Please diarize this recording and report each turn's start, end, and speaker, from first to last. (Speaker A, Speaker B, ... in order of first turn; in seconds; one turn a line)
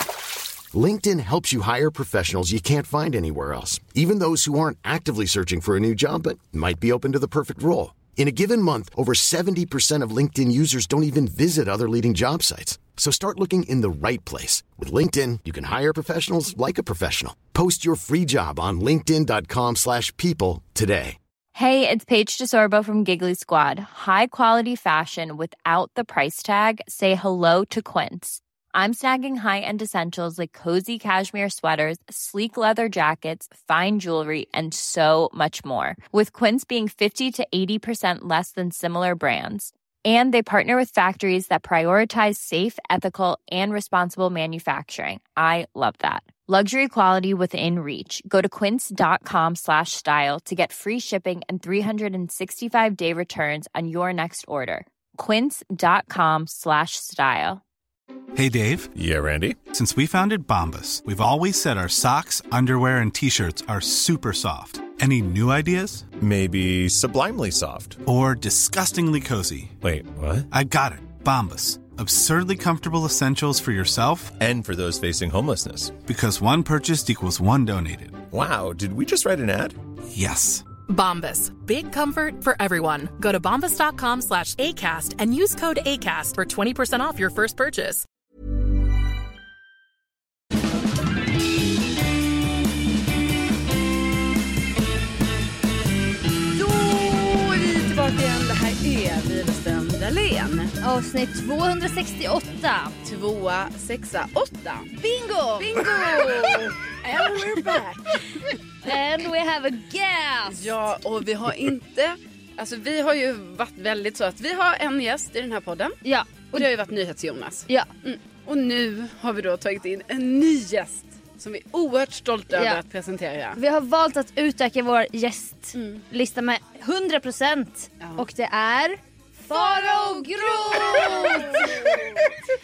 Speaker A: 0.7-21.2
Speaker B: 21.6-57.6
Speaker C: 58.4-58.9
Speaker D: 59.0-59.6
Speaker C: 59.7-66.1
Speaker D: 66.2-68.0
Speaker C: 68.0-69.8
Speaker D: 69.8-70.5
Speaker C: 70.5-74.4
Speaker D: 74.4-76.0
Speaker C: 76.0-78.3
Speaker D: 78.3-79.8
Speaker C: 80.1-80.7
Speaker E: 80.9-88.0
Speaker F: 96.5-100.7
Speaker G: 100.8-102.9
Speaker F: 103.0-104.9
Speaker G: 105.0-106.7
Speaker F: 105.6-108.6
Speaker G: 108.8-110.7
Speaker F: 110.5-116.0
Speaker G: 116.0-116.7
Speaker F: 116.5-123.6
Speaker G: 122.5-122.8
Speaker G: 123.6-132.0
Speaker F: 125.8-126.0
Speaker F: 129.5-132.3